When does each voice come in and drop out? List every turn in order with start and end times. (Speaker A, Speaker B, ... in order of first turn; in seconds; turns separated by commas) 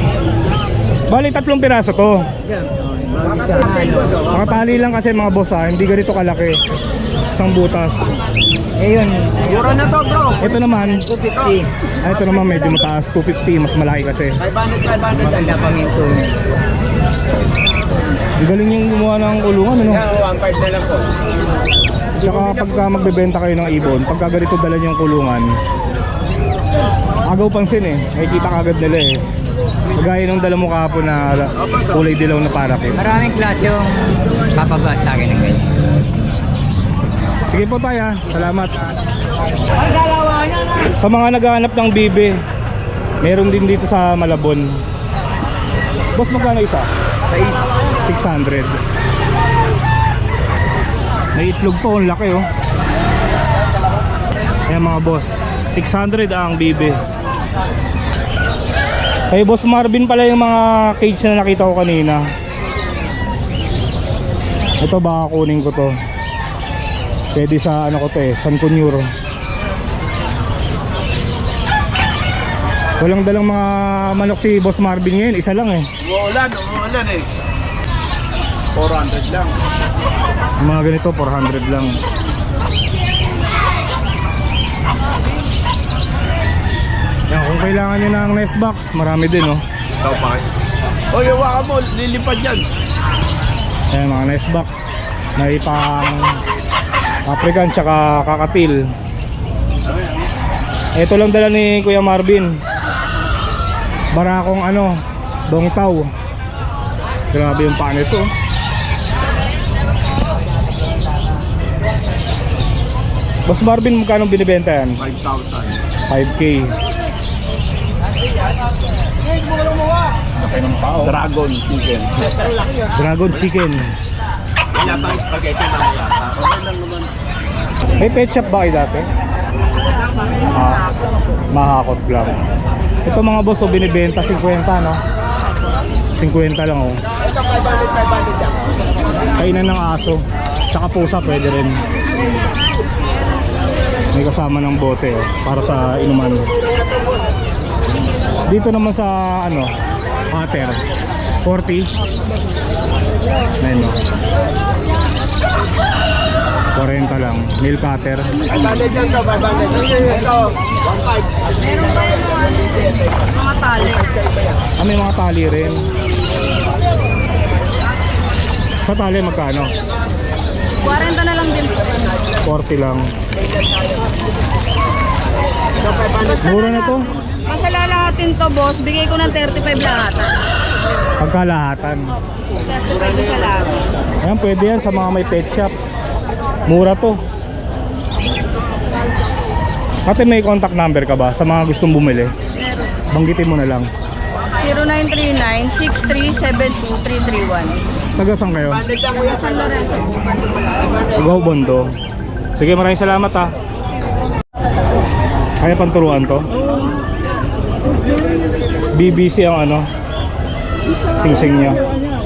Speaker A: 1.1-2.3, Speaker B: 2.5-4.2, Speaker C: 3.3-4.3, Speaker A: 4.2-6.6, Speaker A: 7.3-8.0, Speaker B: 8.8-11.7, Speaker C: 9.5-10.5, Speaker A: 10.4-11.0, Speaker A: 12.0-14.4, Speaker C: 14.4-15.7, Speaker B: 15.1-16.4, Speaker A: 18.4-20.1, Speaker C: 19.9-21.1, Speaker A: 22.2-25.6, Speaker C: 22.2-23.1, Speaker A: 27.3-29.2, Speaker A: 29.9-33.0, Speaker B: 33.0-35.7, Speaker A: 37.5-38.8, Speaker A: 41.0-42.4, Speaker A: 43.2-44.7, Speaker A: 46.2-46.9, Speaker A: 48.0-48.8, Speaker A: 51.4-52.5, Speaker A: 54.7-57.0, Speaker A: 59.3-62.2, Speaker A: 64.8-65.9, Speaker A: 67.3-69.0, Speaker A: 73.0-75.8, Speaker C: 76.0-77.2, Speaker C: 78.8-79.5, Speaker A: 80.6-82.0, Speaker A: 87.3-89.6, Speaker C: 90.0-90.4, Speaker C: 91.1-92.6, Speaker A: 93.9-94.8, Speaker A: 95.4-96.4, Speaker A: 97.3-98.9, Speaker A: 101.0-102.5, Speaker A: 104.1-105.0, Speaker A: 105.5-106.1, Speaker A: 107.3-108.3, Speaker A: 113.5-115.0, Speaker C: 115.0-115.8, Speaker A: 116.1-116.7, Speaker C: 121.0-122.1, Speaker A: 123.0-123.8, Speaker C: 124.8-126.6, Speaker A: 128.0-129.1, Speaker A: 130.5-130.8, Speaker A: 131.5-132.4, Speaker A: 133.1-135.0, Speaker A: 136.2-137.0, Speaker A: 139.4-141.8, Speaker A: 144.1-146.5, Speaker A: 148.5-149.7, Speaker A: 150.3-150.8, Speaker A: 151.4-151.9, Speaker A: 153.6-154.0, Speaker A: 156.8-158.3, Speaker C: 158.5-163.1, Speaker D: 163.4-164.1, Speaker A: 164.8-165.8, Speaker A: 168.8-169.7, Speaker D: 170.8-172.0, Speaker A: 172.5-173.1, Speaker C: 173.4-174.0, Speaker C: 175.8-176.6, Speaker A: 176.4-177.1, Speaker D: 177.5-180.4, Speaker A: 181.2-182.1, Speaker D: 182.9-183.6, Speaker A: 184.2-185.7, Speaker A: 186.7-187.2, Speaker A: 190.1-192.3, Speaker A: 193.1-193.9, Speaker D: 194.6-197.8, Speaker A: 198.2-198.8, Speaker C: 198.7-201.3, Speaker A: 201.2-201.9, Speaker A: 202.6-203.5, Speaker A: 205.6-206.5, Speaker A: 208.9-209.9, Speaker A: 211.2-211.8